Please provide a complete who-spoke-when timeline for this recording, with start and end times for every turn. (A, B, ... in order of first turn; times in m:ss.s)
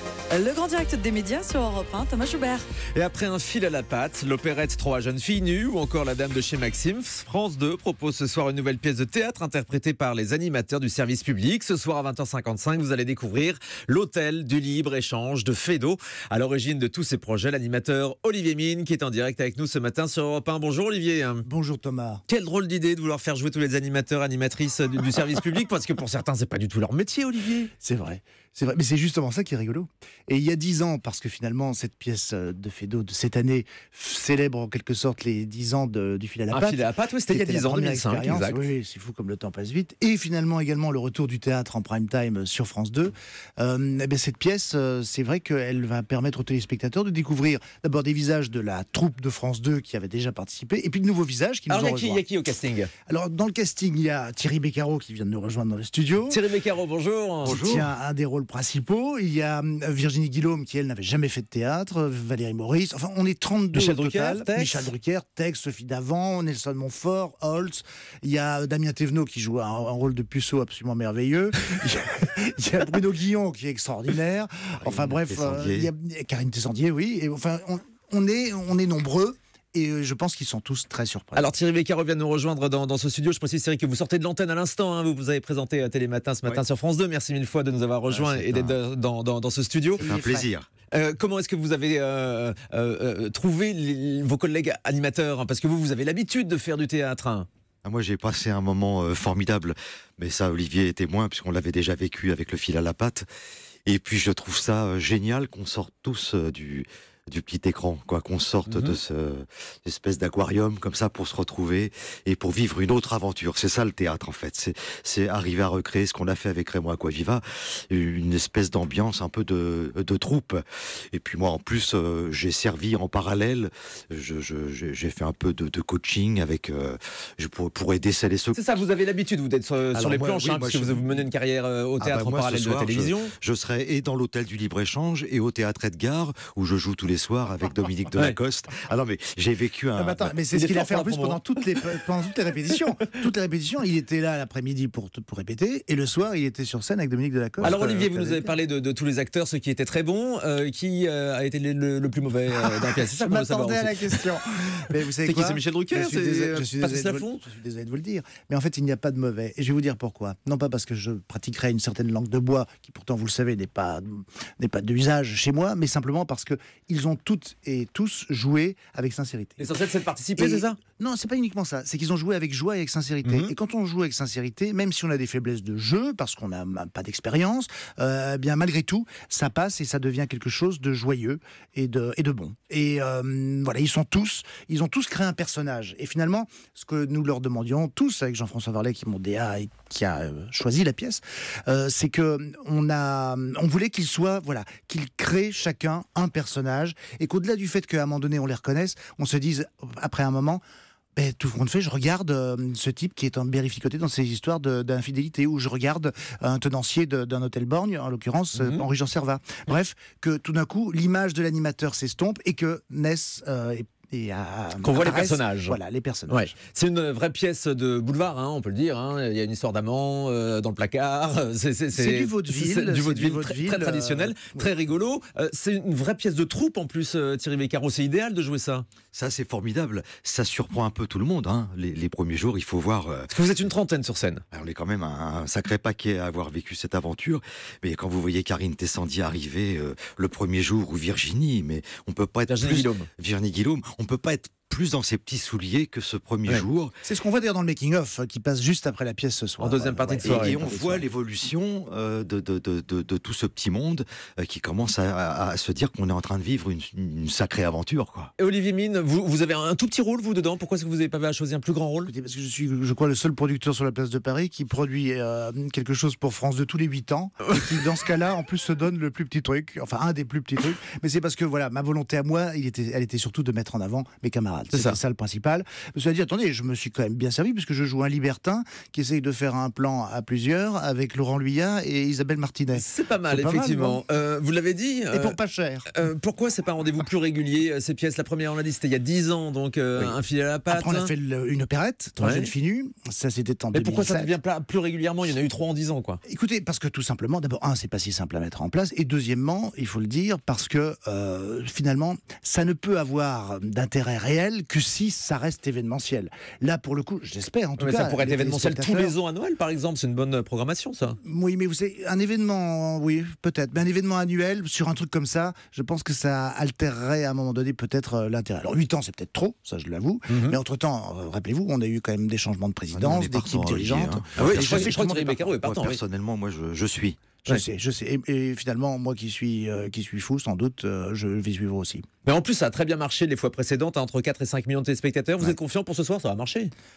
0:00.3-0:02.7 A
0:02.9-0:21.4 B
0:21.4-0:22.2 C
0:22.3-0:27.7 B
0:27.8-0:52.2 C
0:36.5-0:38.7 B
0:51.7-0:52.9 B
0:53.0-0:56.4 C
0:56.3-0:57.6 B
0:57.4-1:21.5 C
0:57.4-0:57.9 D
1:03.7-1:04.9 B
1:14.8-1:15.9 D
1:21.3-1:30.1 B
1:28.1-1:28.8 D
1:30.0-1:30.5 C
1:30.0-1:30.7 D
1:30.9-1:37.5 B
1:37.8-1:43.2 D
1:43.8-2:08.8 D
1:48.7-1:49.0 B
2:08.5-2:13.3 B
2:09.9-2:11.2 D
2:12.0-2:20.3 D
2:19.9-2:28.5 C
2:20.5-2:22.0 B
2:22.7-2:23.2 B
2:27.6-2:34.3 B
2:32.5-2:49.7 C
2:35.2-2:37.4 B
2:49.6-2:50.8 B
2:50.4-3:20.6 C
2:53.2-2:53.5 B
3:21.1-3:36.6 C
3:28.5-3:28.8 B
3:34.8-3:48.9 B
3:41.9-3:44.7 C
3:49.1-3:53.3 D
3:53.3-3:54.4 B
3:54.5-4:07.0 D
4:02.5-4:03.1 B
4:07.0-4:11.1 C
4:09.6-4:10.6 B
4:10.2-4:18.3 D
4:18.4-4:22.1 B
4:22.0-4:44.0 C
4:27.5-4:27.8 B
4:34.7-4:35.0 B
4:42.7-4:45.4 B
4:45.1-4:45.9 C
4:45.9-4:51.1 B
4:50.7-4:54.4 C
4:52.2-4:52.5 B
4:53.7-4:56.2 B
4:56.2-5:09.2 C
5:07.8-5:11.2 B
5:11.2-5:25.5 C
5:20.3-5:20.6 B
5:22.9-5:24.9 D
5:24.4-5:26.0 B
5:25.6-5:27.2 D
5:27.4-5:32.0 C
5:32.2-5:36.7 B